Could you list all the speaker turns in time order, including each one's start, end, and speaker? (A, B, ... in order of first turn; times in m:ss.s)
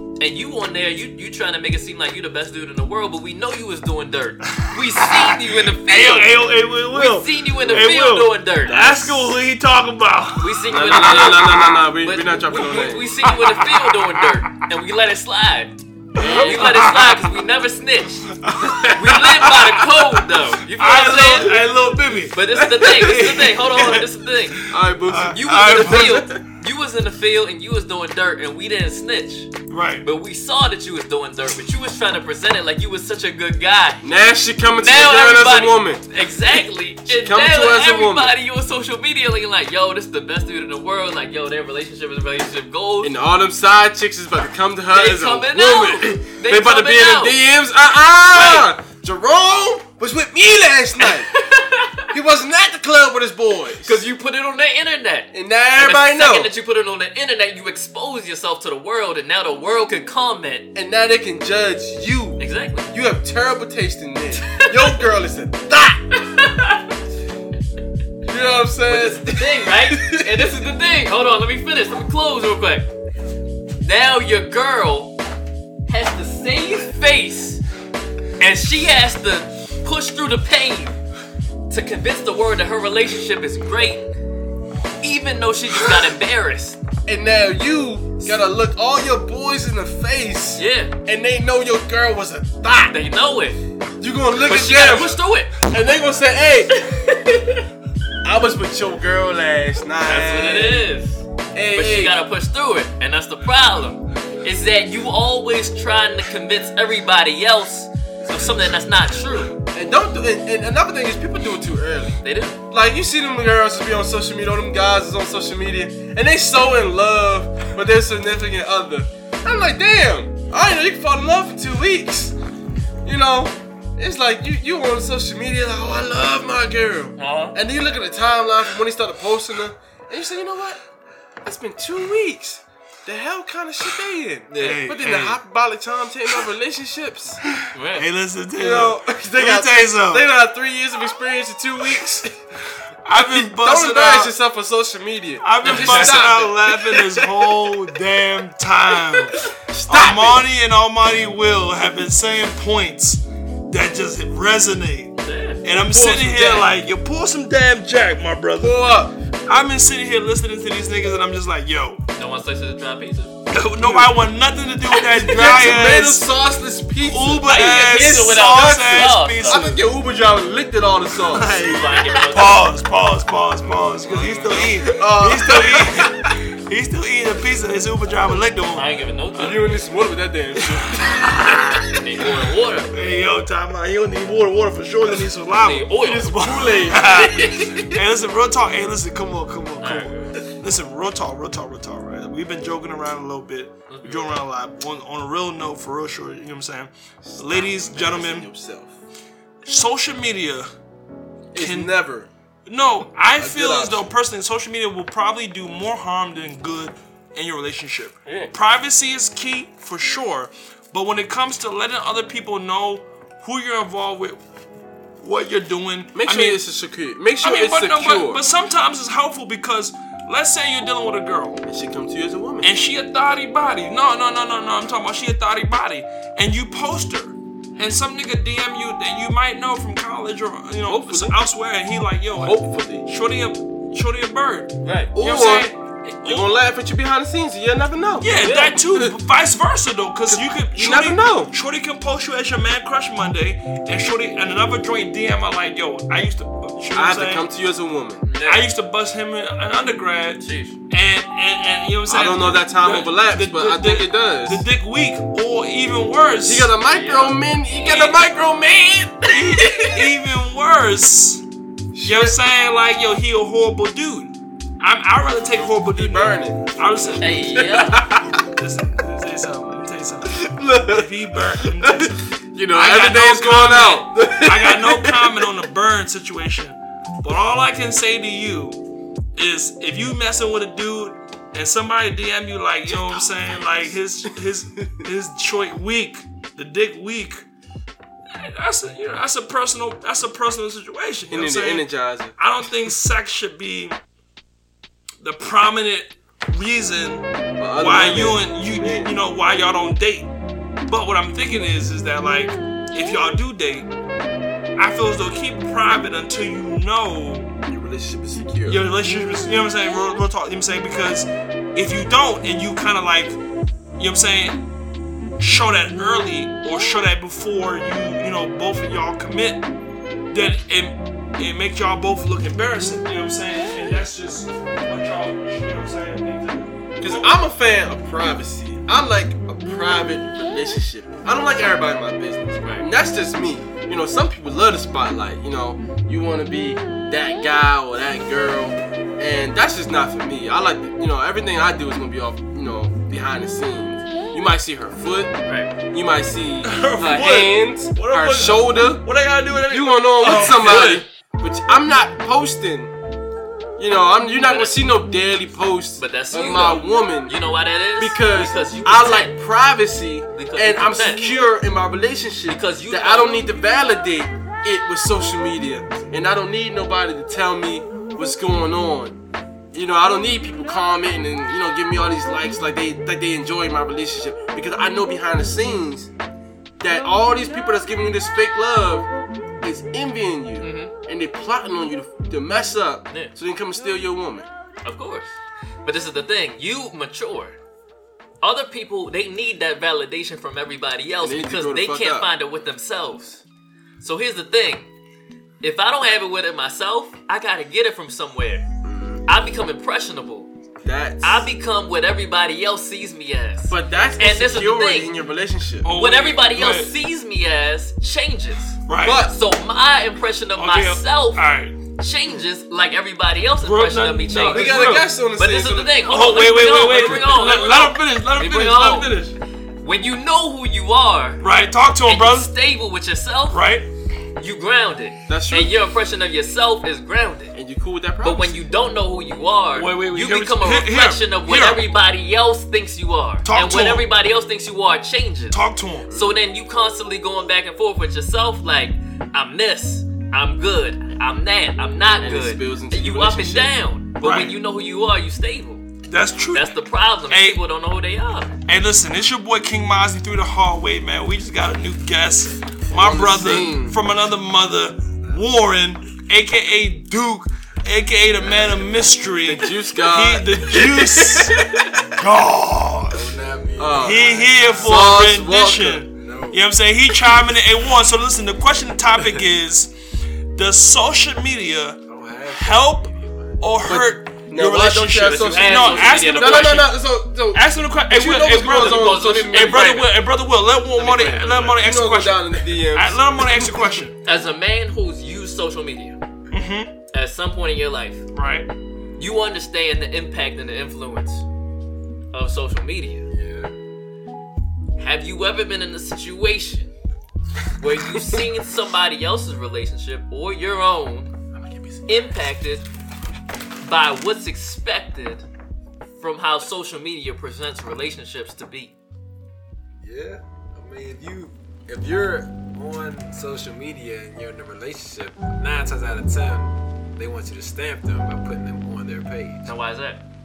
0:00.2-0:09.2 A
0:04.5-0:11.7 B
0:10.4-0:18.3 A
0:10.7-0:13.1 C
0:13.2-0:14.4 B
0:16.2-0:17.4 B
0:16.2-0:16.7 C
0:18.3-0:24.1 B
0:18.9-0:21.6 A
0:22.3-0:24.6 A
0:24.6-0:26.3 B
0:24.7-0:26.4 C
0:25.3-0:29.5 A
0:29.7-0:30.0 B
0:30.0-0:34.0 A
0:34.0-0:36.0 C
0:34.8-0:43.1 A
0:37.1-0:38.3 C
0:43.0-0:51.3 C
0:44.9-0:47.4 A
0:48.3-0:48.8 A
0:51.0-0:52.1 A
0:52.1-0:54.0 C
0:53.8-1:00.7 A
0:55.3-0:56.5 C
1:00.7-1:06.1 C
1:02.4-1:02.9 A
1:04.4-1:05.0 A
1:06.1-1:06.9 A
1:08.2-1:10.5 C
1:08.9-1:12.9 A
1:13.8-1:15.2 A
1:15.9-1:17.6 A
1:18.4-1:21.0 A
1:21.7-1:24.1 A
1:25.0-1:26.8 A
1:27.0-1:33.0 C
1:30.6-1:30.9 A
1:32.9-1:33.6 A
1:34.0-1:36.8 C
1:34.4-1:35.5 A
1:36.8-1:37.5 A
1:38.2-1:40.9 C
1:40.0-1:49.5 A
1:41.5-1:42.2 C
1:49.7-1:52.2 C
1:52.2-1:52.6 A
1:52.7-2:02.4 C
2:03.0-2:10.8 C
2:07.2-2:07.6 A
2:11.4-2:17.4 C
2:14.5-2:14.8 A
2:14.6-2:15.4 B
2:17.5-2:20.3 B
2:17.7-2:18.0 A
2:18.6-2:22.4 C
2:23.0-2:24.3 B
2:23.1-2:27.7 C
2:25.4-2:38.8 B
2:25.6-2:26.3 A
2:29.4-2:30.4 C
2:35.2-2:35.6 A
2:35.8-2:36.7 C
2:38.6-2:39.2 C
2:39.4-2:42.0 B
2:42.2-2:43.3 A
2:43.5-2:46.3 B
2:43.8-2:44.1 C
2:45.0-2:51.6 C
2:47.0-2:49.8 B
2:47.5-2:49.7 A
2:51.2-2:59.0 B
2:51.6-2:52.6 A
2:54.0-2:54.7 A
2:54.1-2:56.3 C
2:58.7-2:59.7 A
2:59.3-3:01.1 C
3:00.6-3:02.3 B
3:01.4-3:02.9 A
3:02.9-3:18.5 B
3:05.6-3:07.9 A
3:06.3-3:07.1 C
3:09.8-3:10.4 A
3:13.9-3:14.3 A
3:17.2-3:19.0 C
3:19.6-3:20.7 B
3:21.5-3:22.3 C
3:21.6-3:21.9 B
3:22.7-3:34.4 B
3:23.4-3:24.1 C
3:35.2-3:36.6 B
3:36.1-3:38.4 C
3:37.4-3:41.6 B
3:41.6-3:42.7 C
3:42.6-3:56.6 B
3:50.9-3:51.4 C
3:52.4-3:53.0 C
3:54.8-3:55.1 A
3:55.1-3:55.7 C
3:56.2-3:59.1 C
3:58.2-4:07.5 B
3:58.4-3:58.8 A
4:00.3-4:01.5 C
4:06.9-4:08.2 C
4:08.2-4:08.7 A
4:08.4-4:16.7 B
4:10.4-4:10.8 A
4:12.1-4:14.6 C
4:16.4-4:20.1 C
4:16.9-4:17.4 A
4:17.8-4:18.2 B
4:19.3-4:21.4 B
4:21.9-4:22.4 C
4:22.0-4:27.7 B
4:25.5-4:28.4 C
4:27.2-4:28.0 A
4:28.3-4:38.8 B
4:30.3-4:35.5 C
4:39.4-4:47.4 B
4:42.9-4:43.3 C
4:48.3-4:54.0 B
4:51.3-4:52.3 C
4:55.2-4:57.2 B
4:57.6-4:59.1 C
4:57.8-5:00.3 B
5:00.9-5:03.9 B
5:04.8-5:07.5 B
5:07.6-5:08.8 C
5:08.6-5:13.4 B
5:14.0-5:14.6 B
5:15.4-5:19.6 B
5:20.3-5:27.4 B
5:27.0-5:45.4 C
5:32.6-5:32.9 A
5:45.4-5:45.7 A
5:45.9-5:49.0 C
5:46.6-5:51.0 B
5:49.7-5:52.9 C
5:53.8-5:57.4 C
5:54.4-5:54.9 A
5:56.0-5:59.4 A
5:58.0-6:09.2 C
6:00.3-6:01.3 A
6:02.5-6:03.5 A
6:09.7-6:16.1 C
6:16.8-6:19.1 C
6:19.6-6:24.5 C
6:20.6-6:20.9 A
6:24.8-6:27.6 A
6:28.4-6:33.4 A
6:31.2-6:32.3 C
6:34.0-6:34.9 A
6:35.6-6:38.7 A
6:38.8-6:39.2 C
6:39.3-6:40.5 A
6:40.8-6:41.5 C
6:41.2-6:45.1 A
6:43.7-6:45.9 C
6:45.8-6:46.9 B
6:45.9-6:51.4 A
6:48.9-6:49.3 B
6:49.0-6:49.3 C
6:50.6-6:51.8 B
6:52.0-6:59.1 A
6:53.6-6:55.1 B
6:54.5-6:56.1 C
6:56.0-6:59.3 B
6:59.8-7:01.4 A
7:01.4-7:02.5 B
7:02.0-7:03.6 A
7:03.5-7:03.9 B
7:04.4-7:07.5 A
7:05.3-7:05.8 C
7:07.5-7:08.6 C
7:08.2-7:25.8 A
7:09.7-7:11.8 B
7:13.4-7:14.1 B
7:15.5-7:16.1 B
7:16.0-7:16.4 C
7:22.2-7:23.8 C
7:24.2-7:24.6 B
7:26.1-7:26.8 B
7:26.5-7:28.5 A
7:27.3-7:27.6 B
7:28.6-7:43.3 B
7:32.9-7:34.0 C
7:39.4-7:42.0 C
7:43.1-7:45.2 D
7:43.8-7:46.0 C
7:43.9-7:49.9 B
7:46.1-7:46.6 D
7:50.5-7:57.0 B
7:52.1-7:53.6 D
7:53.8-8:00.0 C
7:55.2-7:56.9 A
7:57.5-8:04.2 B
7:58.6-8:00.1 A
8:01.0-8:04.0 C
8:01.0-8:01.6 A
8:04.2-8:06.2 A
8:06.5-8:06.9 B
8:07.1-8:08.2 A
8:08.3-8:08.7 B
8:09.2-8:11.4 A
8:12.3-8:13.3 A
8:13.3-8:13.7 D
8:15.0-8:16.9 A
8:17.8-8:21.3 A
8:21.6-8:22.0 C
8:22.1-8:22.8 A
8:23.8-8:25.4 A
8:26.2-8:28.9 A
8:30.0-8:39.7 D
8:39.6-8:40.2 A